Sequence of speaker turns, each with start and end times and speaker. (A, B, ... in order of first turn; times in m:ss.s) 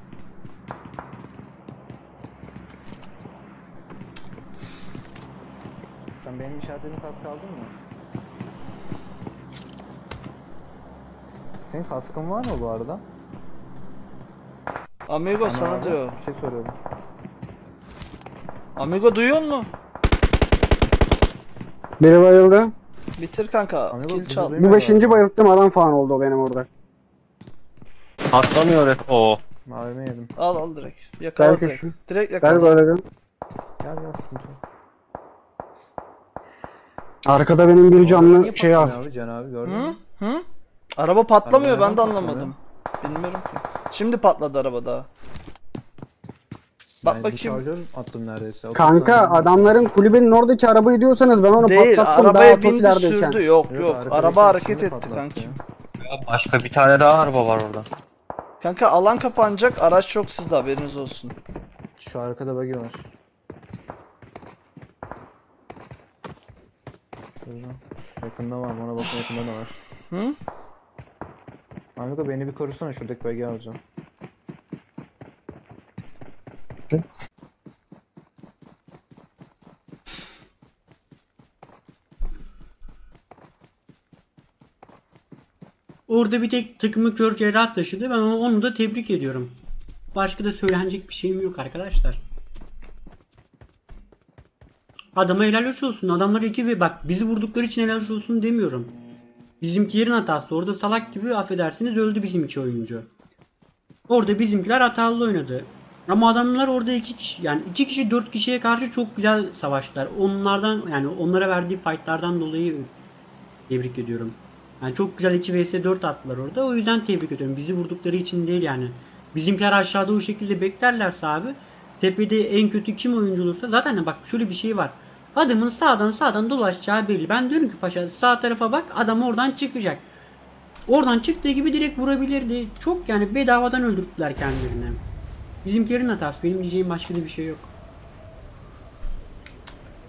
0:06.2-0:07.7 A
0:11.7-0:13.0 A
0:15.1-0:16.2 B
0:15.4-0:16.8 A
0:18.8-0:19.7 B
0:22.0-0:22.7 C
0:23.2-0:24.5 B
0:23.9-0:25.2 A
0:24.2-0:26.7 C
0:28.3-0:29.4 D
0:29.6-0:30.3 A
0:30.4-0:32.8 B
0:31.4-0:33.0 C
0:33.8-0:34.6 A
0:37.2-0:39.0 C
0:38.0-0:40.0 A
0:39.6-0:40.4 B
0:41.0-0:45.1 B
0:41.4-0:42.5 A
0:47.0-0:47.6 B
0:47.0-0:49.8 A
0:48.7-0:53.4 C
0:51.6-0:55.6 B
0:53.7-0:55.6 A
0:56.0-0:57.8 D
0:58.6-1:01.3 B
1:02.0-1:03.0 A
1:07.4-1:09.7 A
1:10.1-1:10.4 B
1:12.0-1:13.8 A
1:26.1-1:29.6 E
1:30.1-1:32.2 E
1:35.1-1:39.0 E
1:39.6-1:43.1 E
1:44.1-1:52.9 E
1:53.7-2:10.1 E
2:10.9-2:15.0 E
2:15.6-2:17.7 E